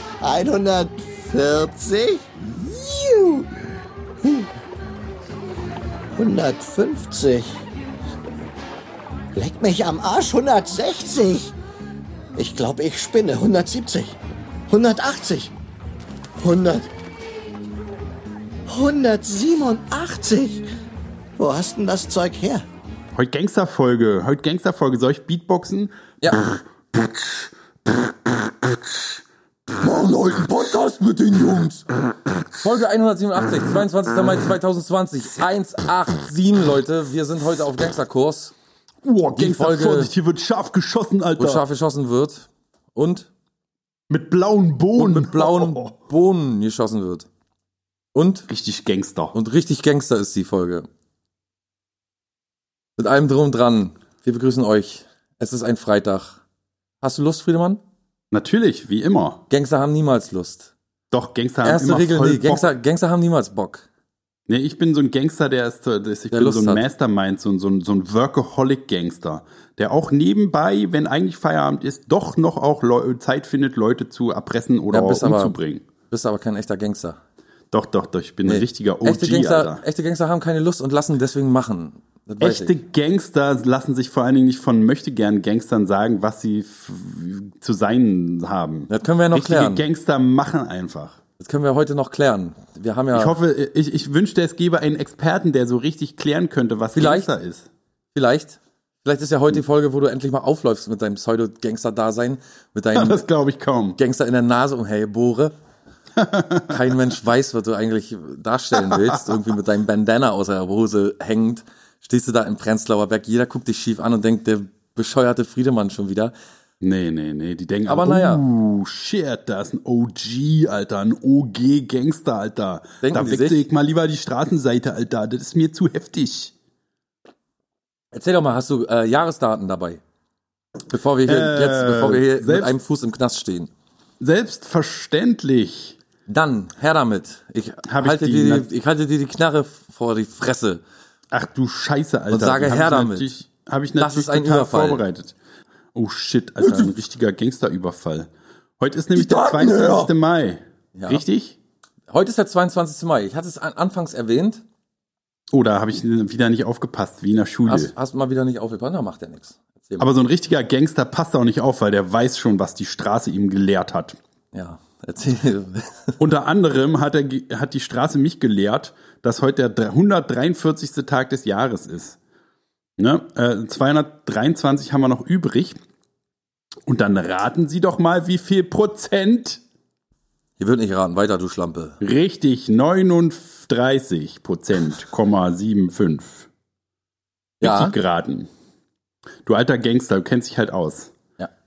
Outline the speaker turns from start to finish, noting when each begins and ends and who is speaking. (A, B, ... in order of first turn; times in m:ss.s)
0:00.2-0:03.5 A
0:04.2-0:04.5 A
0:06.2-0:07.6 A
0:09.3-0:11.5 A
0:12.4-0:14.2 A
0:14.7-0:15.5 A
0:16.4-0:16.9 A
0:18.7-0:20.6 A
0:21.4-0:22.6 A
0:23.2-0:25.9 B
0:26.2-0:26.5 C
0:29.7-0:31.9 C
0:32.5-0:38.5 C
0:39.0-0:41.6 B
0:39.4-0:40.1 C
0:41.4-0:43.3 C
0:44.1-0:45.9 B
0:45.0-0:47.3 C
0:48.1-0:48.5 C
0:48.5-0:49.4 B
0:49.3-0:50.9 C
0:53.0-0:56.4 C
0:57.0-0:57.8 C
0:58.3-0:59.4 B
0:59.5-1:00.7 C
1:01.1-1:02.7 B
1:01.6-1:03.8 C
1:04.5-1:15.8 B
1:06.3-1:06.8 C
1:14.9-1:15.6 C
1:16.1-1:17.2 C
1:17.7-1:19.8 B
1:18.5-1:22.8 C
1:22.4-1:31.2 B
1:28.9-1:29.8 C
1:31.4-1:33.4 C
1:33.1-1:37.7 B
1:37.0-1:37.3 C
1:38.1-1:43.2 C
1:43.0-1:44.0 B
1:44.0-1:45.5 C
1:46.2-1:46.8 B
1:46.7-1:56.3 C
1:48.8-1:49.2 B
1:56.8-2:06.5 B
1:57.9-1:58.4 C
2:03.0-2:03.6 C
2:08.1-2:10.0 C
2:10.9-2:13.7 C
2:11.3-2:12.8 B
2:14.2-2:16.0 B
2:16.3-2:20.8 C
2:17.9-2:18.7 B
2:21.3-2:25.4 B
2:22.3-2:23.3 C
2:24.0-2:25.0 C
2:25.9-2:31.6 B
2:26.6-2:27.0 C
2:29.1-2:30.1 C
2:31.0-2:31.2 C
2:32.1-2:34.6 C
2:35.5-2:37.9 B
2:37.7-2:40.1 C
2:40.0-2:44.2 B
2:44.5-2:46.2 C
2:46.2-2:52.2 B
2:53.0-2:55.8 B
2:56.9-2:59.6 B
3:00.6-3:02.0 C
3:02.0-3:06.5 B
3:07.6-3:07.9 C
3:07.6-3:08.5 B
3:09.5-3:11.1 B